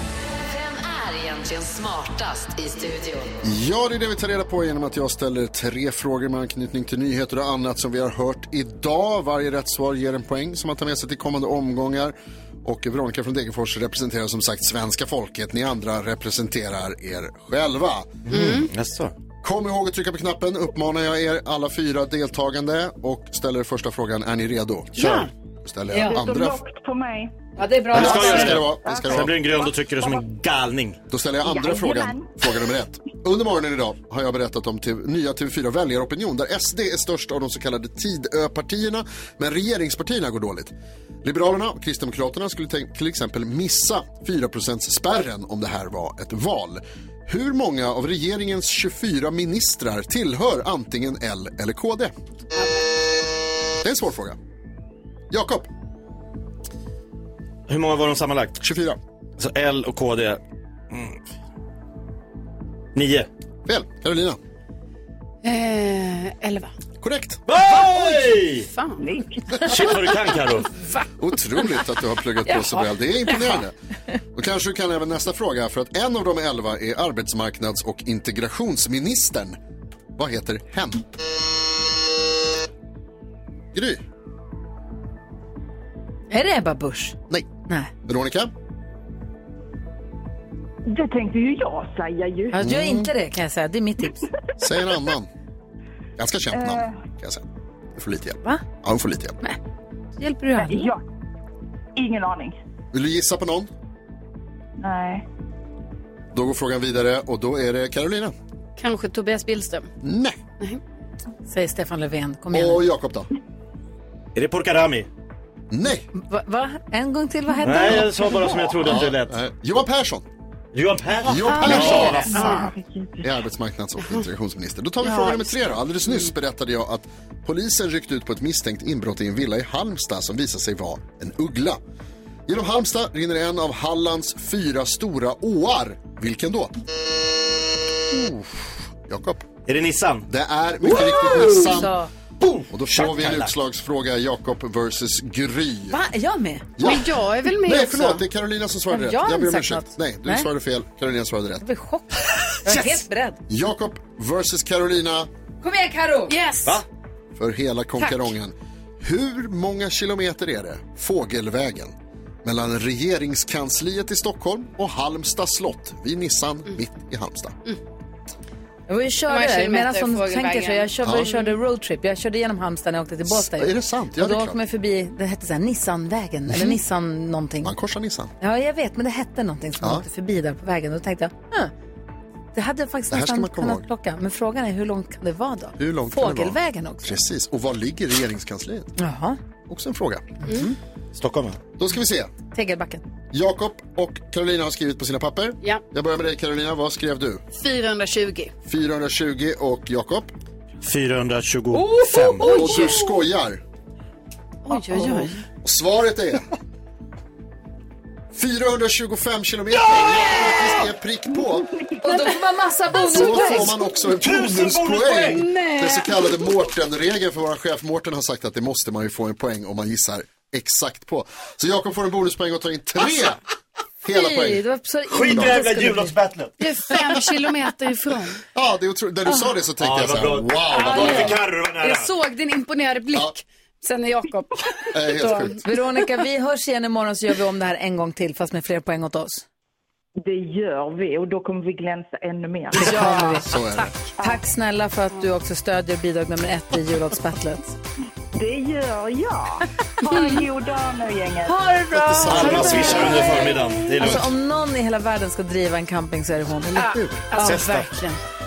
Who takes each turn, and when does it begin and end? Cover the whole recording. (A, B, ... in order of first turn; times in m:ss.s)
0:00.4-0:03.4 A
0:03.4-0:18.2 B
0:18.3-0:19.1 C
0:18.3-0:18.7 D
0:19.4-0:26.6 B
0:24.9-0:25.3 D
0:25.9-0:26.2 E
0:26.0-0:27.5 F
0:27.6-0:28.6 E
0:27.9-0:31.0 C
0:27.9-0:29.4 B
0:28.0-0:30.2 F
0:31.1-0:52.1 B
0:31.4-0:32.7 F
0:52.5-0:52.8 D
0:53.8-0:54.4 B
0:55.3-0:55.7 B
0:57.7-0:58.6 C
0:58.6-0:59.0 B
0:59.4-1:01.2 C
1:02.9-1:03.3 C
1:03.6-1:04.4 B
1:05.4-1:06.7 D
1:07.0-1:07.4 B
1:07.5-1:08.7 C
1:07.7-1:09.1 D
1:09.0-1:10.3 F
1:09.7-1:10.7 C
1:10.8-1:11.1 D
1:11.2-1:13.7 B
1:12.4-1:13.6 D
1:14.3-1:19.6 B
1:20.2-1:21.2 B
1:23.7-1:24.0 B
1:26.3-1:27.9 E
1:28.0-1:28.5 B
1:30.9-1:32.6 F
1:32.5-1:34.3 E
1:32.6-1:33.1 B
1:34.6-1:35.3 B
1:36.2-1:37.4 B
1:36.5-1:37.0 F
1:37.9-1:39.4 B
1:40.2-1:40.9 E
1:40.6-1:41.0 F
1:42.0-1:42.6 F
1:42.9-1:43.7 B
1:44.8-1:45.2 F
1:46.3-1:48.3 B
1:48.8-1:49.9 D
1:50.0-1:50.4 B
1:51.5-1:52.8 E
1:52.5-1:53.3 B
1:54.3-1:55.1 C
1:55.7-1:56.1 B
1:56.1-1:58.1 E
1:57.6-1:59.3 C
1:58.8-2:00.2 B
2:00.7-2:02.7 C
2:01.2-2:02.6 B
2:01.5-2:02.7 D
2:01.9-2:03.3 F
2:03.2-2:11.8 B
2:05.0-2:06.2 D
2:12.5-2:16.8 B
2:18.1-2:19.5 B
2:19.6-2:20.3 C
2:20.3-2:21.9 B
2:20.8-2:21.8 C
2:21.5-2:22.1 E
2:22.4-2:23.5 C
2:22.7-2:26.0 B
2:25.9-2:26.7 E
2:26.8-2:31.6 B
2:26.8-2:28.2 D
2:28.9-2:30.5 E
2:31.6-2:33.4 E
2:32.6-2:33.0 C
2:33.5-2:35.3 B
2:35.6-2:36.3 E
2:36.3-2:36.8 D
2:37.4-2:47.5 B
2:38.0-2:38.3 D
2:48.9-2:57.7 E
2:49.3-2:51.5 D
2:51.0-2:51.3 B
2:53.2-2:54.6 B
2:57.6-2:58.3 B
2:58.4-3:01.7 E
2:59.8-3:00.0 B
3:02.5-3:07.2 E
3:03.1-3:03.9 B
3:05.8-3:08.9 B
3:09.0-3:09.4 E
3:09.7-3:10.2 B
3:10.4-3:10.8 E
3:11.1-3:11.6 C
3:11.8-3:12.3 B
3:12.5-3:13.0 E
3:13.3-3:17.4 B
3:17.6-3:18.5 D
3:18.6-3:20.3 B
3:20.8-3:22.5 C
3:21.7-3:23.0 E
3:22.4-3:23.0 D
3:22.4-3:23.6 B
3:24.6-3:25.4 D
3:24.7-3:25.4 E
3:25.6-3:26.5 B
3:28.3-3:31.7 B
3:29.9-3:30.8 E
3:31.3-3:32.4 F
3:32.0-3:33.8 E
3:33.0-3:43.4 B
3:34.2-3:35.5 C
3:35.3-3:36.1 E
3:44.0-3:44.6 B
3:44.1-3:46.2 E
3:45.1-3:46.6 C
3:45.2-3:45.6 B
3:46.6-3:48.4 D
3:48.5-3:51.4 B
3:49.8-3:52.1 C
3:50.7-3:55.6 D
3:54.9-3:55.6 B
3:55.6-3:59.4 E
4:00.2-4:03.3 F
4:02.7-4:04.1 D
4:02.9-4:03.4 E
4:03.3-4:03.9 B
4:04.2-4:07.8 E
4:08.3-4:11.6 F
4:10.1-4:10.4 E
4:11.4-4:16.9 E
4:11.9-4:13.4 B
4:12.3-4:14.3 C
4:12.5-4:13.5 D
4:16.7-4:17.3 B
4:16.7-4:18.2 D
4:17.3-4:17.9 C